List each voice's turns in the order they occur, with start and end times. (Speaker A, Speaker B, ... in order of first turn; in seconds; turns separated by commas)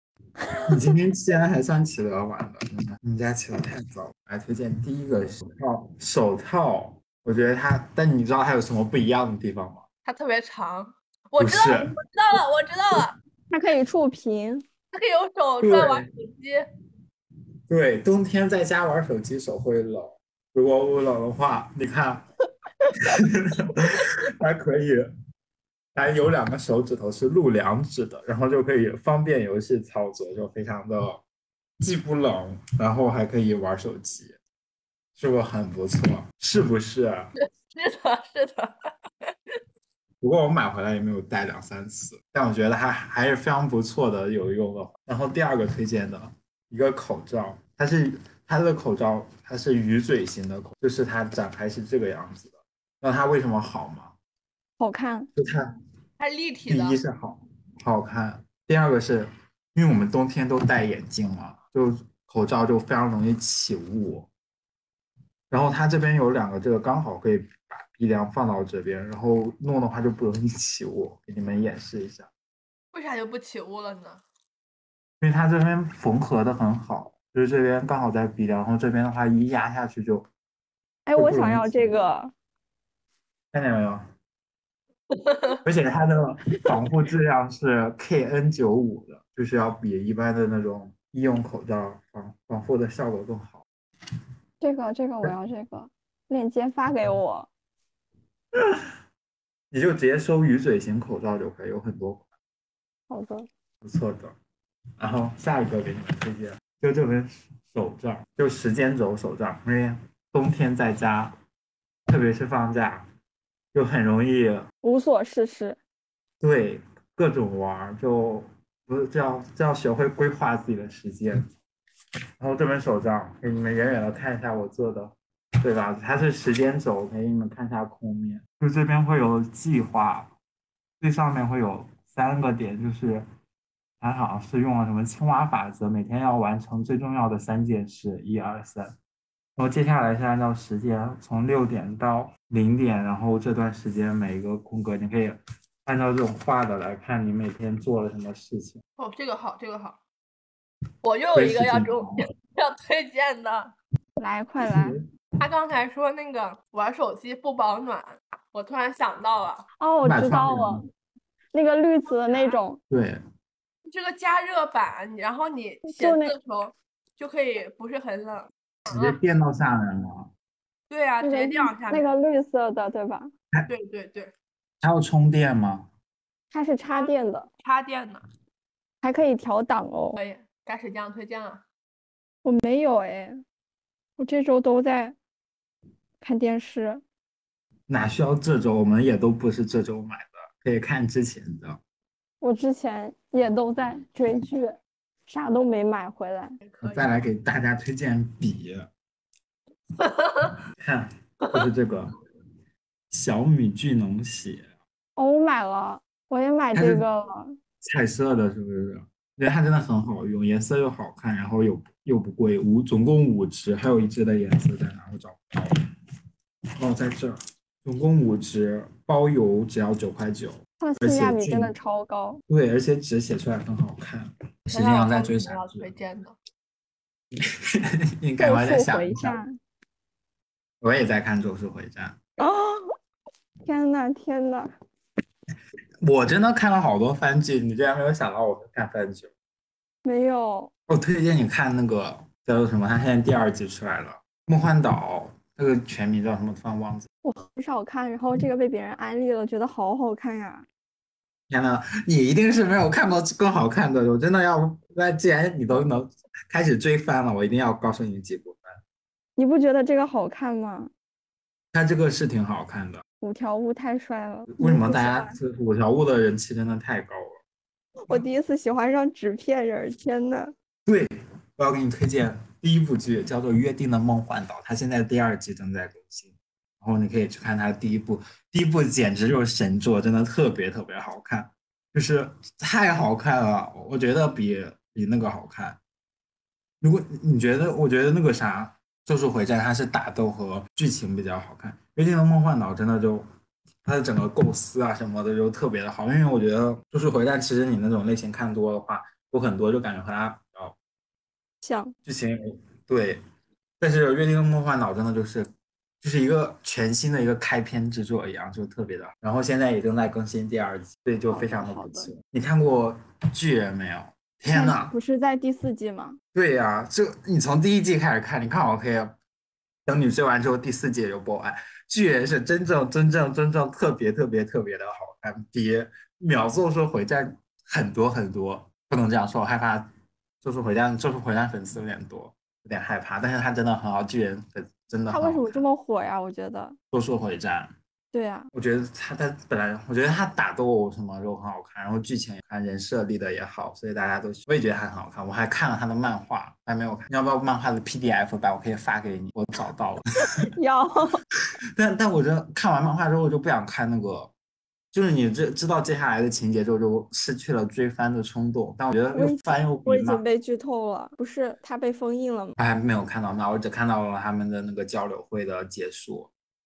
Speaker A: 0.4-0.7, Speaker B: 0.7-9.8, Speaker C: 10.1-13.2, Speaker B: 11.4-11.9, Speaker A: 13.5-14.6, Speaker C: 14.9-16.7, Speaker B: 15.6-16.1, Speaker B: 17.7-22.2, Speaker B: 23.1-25.0, Speaker B: 25.9-31.2, Speaker B: 31.8-34.4, Speaker B: 35.1-37.3, Speaker C: 37.4-38.8, Speaker B: 40.2-54.1, Speaker A: 54.8-55.3, Speaker B: 55.4-55.7, Speaker C: 56.2-57.0, Speaker B: 56.7-64.3, Speaker B: 65.5-72.3, Speaker C: 72.9-74.2, Speaker B: 75.2-80.2, Speaker A: 81.0-82.3, Speaker B: 81.1-82.1, Speaker B: 83.5-84.0, Speaker C: 85.2-85.6, Speaker B: 85.6-93.6, Speaker A: 94.6-97.5, Speaker B: 99.7-102.3, Speaker A: 103.1-103.5, Speaker B: 103.8-104.3, Speaker B: 105.0-111.3, Speaker B: 112.1-113.0, Speaker B: 113.7-114.7, Speaker A: 114.8-115.8, Speaker B: 116.4-121.4, Speaker B: 122.4-130.3, Speaker B: 131.0-133.2, Speaker B: 134.0-138.9, Speaker B: 139.6-148.8, Speaker C: 149.0-150.0, Speaker C: 151.0-153.7, Speaker B: 151.3-152.2, Speaker A: 154.2-155.0, Speaker B: 154.6-155.0, Speaker C: 155.4-159.7, Speaker A: 159.8-160.8, Speaker B: 160.0-160.8, Speaker A: 161.5-162.8, Speaker C: 162.3-162.6, Speaker B: 162.9-163.2, Speaker C: 163.9-169.2, Speaker A: 165.8-166.3, Speaker B: 168.9-170.3, Speaker C: 170.9-172.1, Speaker A: 171.2-173.3, Speaker C: 173.7-174.3, Speaker B: 174.8-175.9, Speaker A: 176.5-177.5, Speaker C: 176.9-178.2, Speaker A: 179.0-180.2, Speaker C: 180.2-181.7, Speaker A: 182.4-183.4, Speaker A: 184.2-185.2, Speaker A: 186.2-187.0, Speaker B: 187.9-191.8, Speaker A: 192.4-196.5, Speaker C: 196.6-197.2, Speaker B: 196.8-198.9, Speaker C: 200.0-200.5, Speaker B: 200.8-202.1, Speaker B: 203.1-204.7, Speaker A: 205.2-207.5, Speaker B: 206.7-207.0, Speaker B: 207.8-215.7, Speaker B: 216.8-221.7, Speaker A: 220.8-222.4, Speaker B: 222.5-225.9, Speaker C: 224.7-226.3, Speaker B: 227.7-229.4, Speaker A: 228.4-229.5, Speaker B: 230.8-232.2, Speaker A: 232.4-232.9, Speaker A: 233.6-234.7, Speaker B: 236.0-239.3, Speaker A: 240.0-240.7, Speaker B: 240.9-247.1, Speaker A: 247.2-250.7, Speaker B: 251.5-258.8, Speaker A: 259.4-260.9, Speaker B: 261.7-263.0, Speaker A: 263.2-265.4, Speaker B: 264.5-267.4, Speaker A: 268.1-270.5, Speaker B: 270.8-285.8, Speaker B: 286.8-293.2, Speaker B: 293.8-300.7, Speaker A: 301.6-301.9, Speaker B: 302.0-303.2, Speaker B: 303.8-305.5, Speaker B: 306.0-315.0, Speaker A: 311.3-312.1, Speaker A: 314.5-316.2, Speaker B: 316.3-319.1, Speaker B: 319.9-329.9, Speaker B: 330.4-335.6, Speaker A: 335.1-336.8, Speaker B: 336.9-337.7, Speaker A: 338.1-338.5, Speaker B: 338.5-350.0, Speaker A: 350.5-351.2, Speaker B: 351.8-354.3, Speaker B: 354.9-360.2, Speaker A: 359.1-362.5, Speaker B: 362.6-366.3